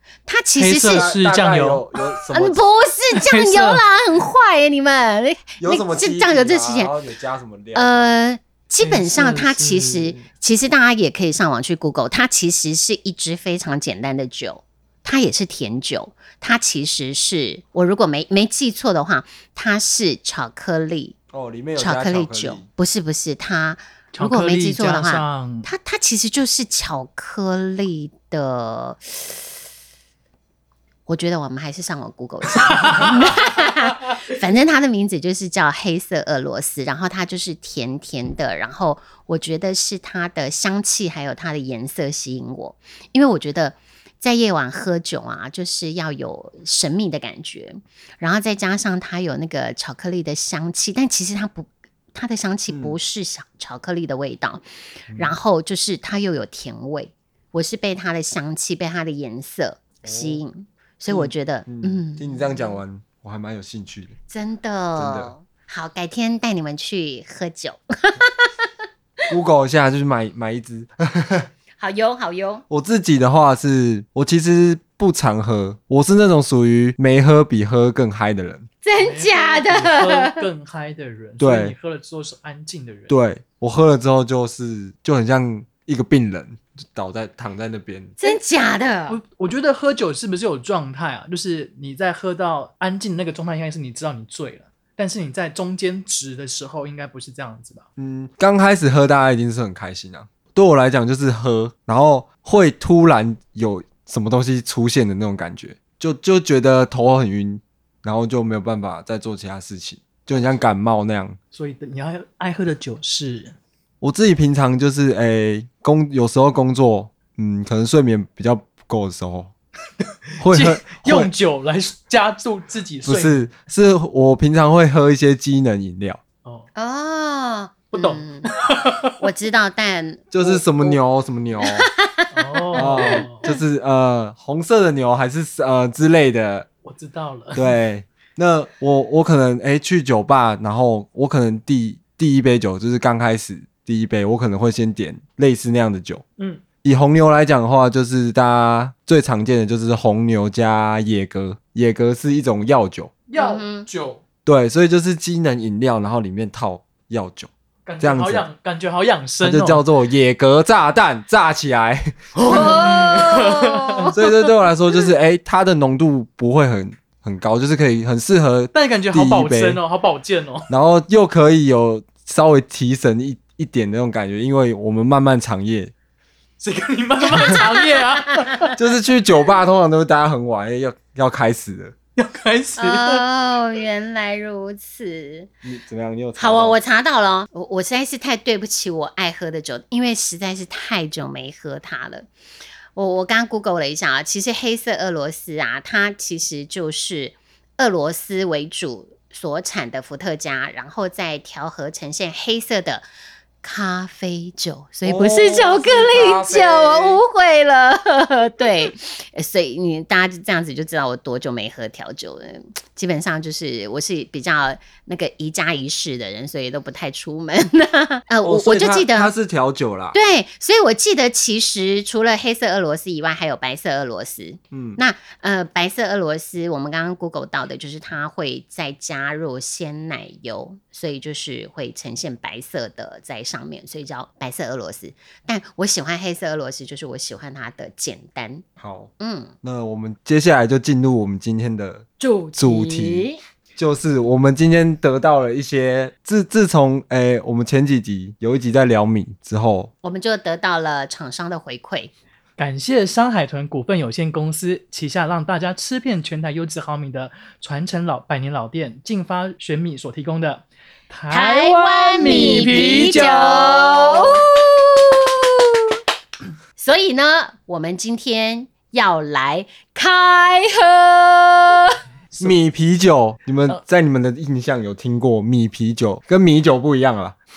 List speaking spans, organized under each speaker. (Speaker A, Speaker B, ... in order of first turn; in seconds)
Speaker A: 0.3-1.1, 2.3-6.9, 7.8-21.2, 21.8-29.5, 31.1-62.8, 64.3-68.7, 71.8-72.6, 78.8-80.5, 88.2-89.2, 126.8-128.5, 129.2-131.0, 131.6-133.6, 153.4-153.9, 162.5-164.3, 177.4-178.7, 182.8-185.5, 186.4-192.3, 192.9-203.1, 203.6-219.3, 220.1-238.7, 239.2-239.5, 242.2-243.4, 250.0-252.1, 261.3-265.7, 266.8-272.0
Speaker B: 0.6-1.8, 3.1-3.8, 8.8-10.1, 24.1-25.7, 32.5-33.3, 79.0-83.1, 89.1-97.8, 111.5-113.5, 120.4-123.4, 127.9-129.2, 132.3-133.5, 136.8-137.7, 153.3-154.2, 157.9-159.8, 162.4-164.2, 168.7-170.7, 176.6-178.7, 182.2-183.2, 252.6-264.2
Speaker C: 0.9-2.6, 5.6-8.1, 21.3-22.7, 52.7-53.0, 55.1-55.4, 60.0-60.4, 61.1-64.2, 65.0-65.3, 69.3-71.5, 72.7-78.7, 81.4-81.8, 83.1-88.2, 98.0-111.4, 114.0-119.5, 120.4-121.3, 123.0-126.2, 130.3-131.9, 132.8-136.7, 137.6-146.2, 146.8-153.1, 154.4-158.5, 159.4-162.3, 164.1-169.8, 170.7-175.9, 178.8-181.9, 185.6-186.8, 205.1-207.2, 218.4-220.2, 224.7-225.0, 238.8-249.9, 272.4-277.4